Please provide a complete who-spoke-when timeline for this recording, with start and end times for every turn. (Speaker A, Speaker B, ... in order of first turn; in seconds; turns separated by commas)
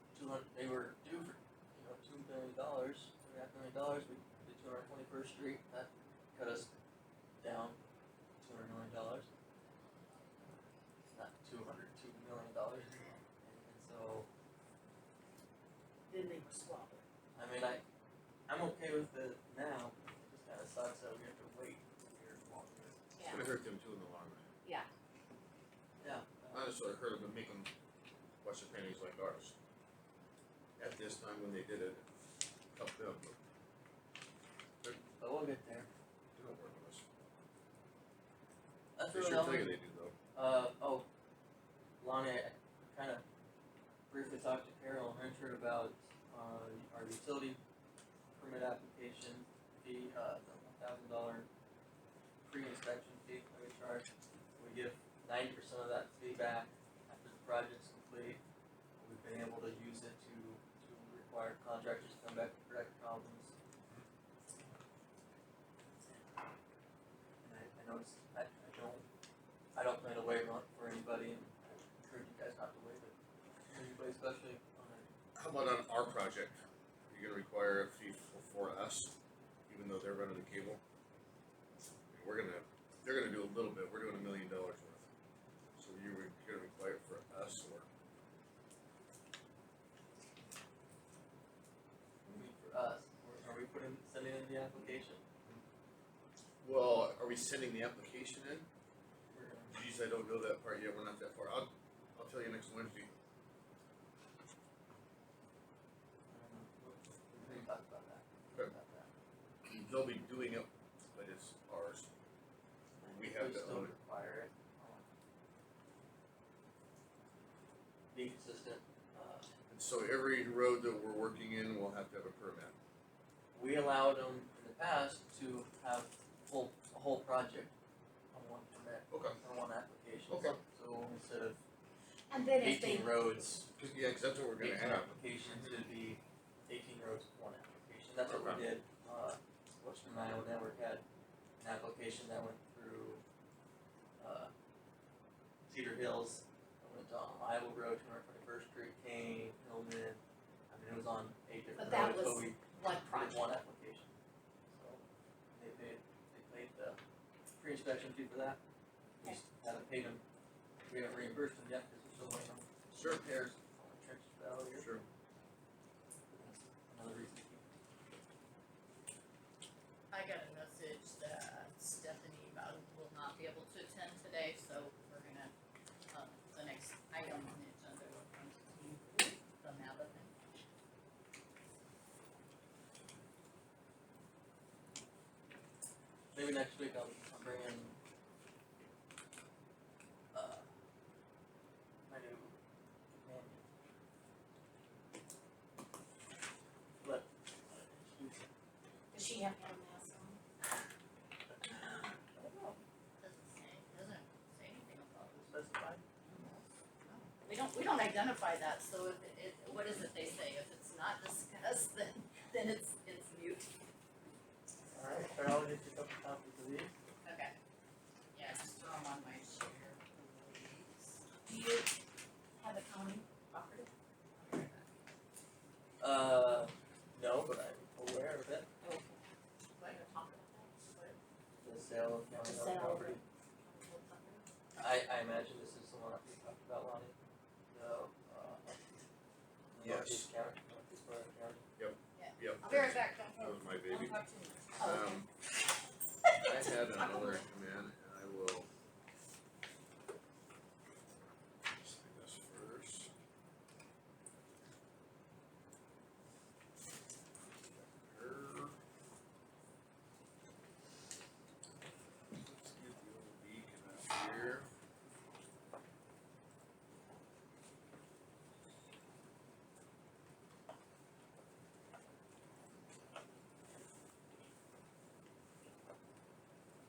Speaker A: 0.1-6.7, Speaker A: 7.4-7.8, Speaker A: 8.4-9.3, Speaker A: 11.1-14.3, Speaker B: 16.1-17.0, Speaker A: 17.4-17.8, Speaker A: 18.5-23.0, Speaker B: 23.2-23.4, Speaker C: 23.2-24.5, Speaker A: 26.0-26.7, Speaker C: 26.5-27.7, Speaker C: 28.4-29.5, Speaker C: 30.8-32.0, Speaker C: 32.7-33.4, Speaker A: 35.2-35.9, Speaker C: 36.3-37.4, Speaker A: 39.0-39.7, Speaker C: 39.1-40.1, Speaker A: 40.3-41.1, Speaker A: 42.0-43.2, Speaker A: 44.1-47.6, Speaker A: 48.4-51.5, Speaker A: 52.4-54.0, Speaker A: 54.6-58.4, Speaker A: 59.0-63.5, Speaker A: 67.4-69.0, Speaker A: 69.7-75.1, Speaker C: 75.3-79.1, Speaker C: 79.7-80.8, Speaker C: 82.1-85.1, Speaker C: 85.8-87.9, Speaker A: 92.2-95.2, Speaker C: 96.6-98.7, Speaker A: 99.3-99.7, Speaker C: 99.7-103.1, Speaker A: 106.3-109.1, Speaker C: 109.6-112.1, Speaker A: 113.0-115.1, Speaker C: 113.0-113.9, Speaker A: 118.1-119.5, Speaker C: 119.7-122.7, Speaker A: 123.5-127.7, Speaker A: 128.3-131.6, Speaker C: 129.1-129.4, Speaker C: 130.3-130.6, Speaker B: 132.3-133.1, Speaker A: 132.6-133.7, Speaker C: 133.8-135.8, Speaker A: 134.6-141.0, Speaker C: 138.2-138.7, Speaker A: 141.6-143.2, Speaker A: 144.2-144.5, Speaker A: 145.7-154.1, Speaker B: 151.8-153.5, Speaker A: 154.7-157.0, Speaker A: 157.6-158.6, Speaker A: 159.2-160.2, Speaker A: 160.9-164.9, Speaker C: 162.9-163.2, Speaker C: 164.7-165.1, Speaker A: 166.3-167.6, Speaker D: 170.1-175.5, Speaker D: 176.1-180.7, Speaker A: 186.3-188.0, Speaker A: 190.3-190.7, Speaker A: 192.1-192.6, Speaker A: 193.2-193.6, Speaker A: 197.0-198.5, Speaker B: 199.1-200.4, Speaker A: 201.6-202.8, Speaker D: 203.2-205.7, Speaker A: 205.5-206.6, Speaker D: 207.0-213.7, Speaker A: 214.9-216.9, Speaker D: 217.2-217.5, Speaker D: 218.3-221.3, Speaker B: 221.4-221.8, Speaker B: 222.6-223.9, Speaker D: 224.3-224.9, Speaker A: 226.0-228.7, Speaker D: 228.8-229.2, Speaker D: 229.8-231.2, Speaker A: 231.6-233.2, Speaker B: 232.4-233.2, Speaker D: 233.6-234.4, Speaker A: 234.8-237.1, Speaker A: 237.7-238.7, Speaker A: 239.7-241.6, Speaker C: 239.8-240.3, Speaker C: 241.8-244.2, Speaker D: 242.2-244.9, Speaker B: 244.8-245.2, Speaker C: 244.8-245.3, Speaker C: 246.4-248.7, Speaker D: 247.1-247.4, Speaker C: 251.7-253.1, Speaker C: 257.6-258.8, Speaker C: 262.3-264.7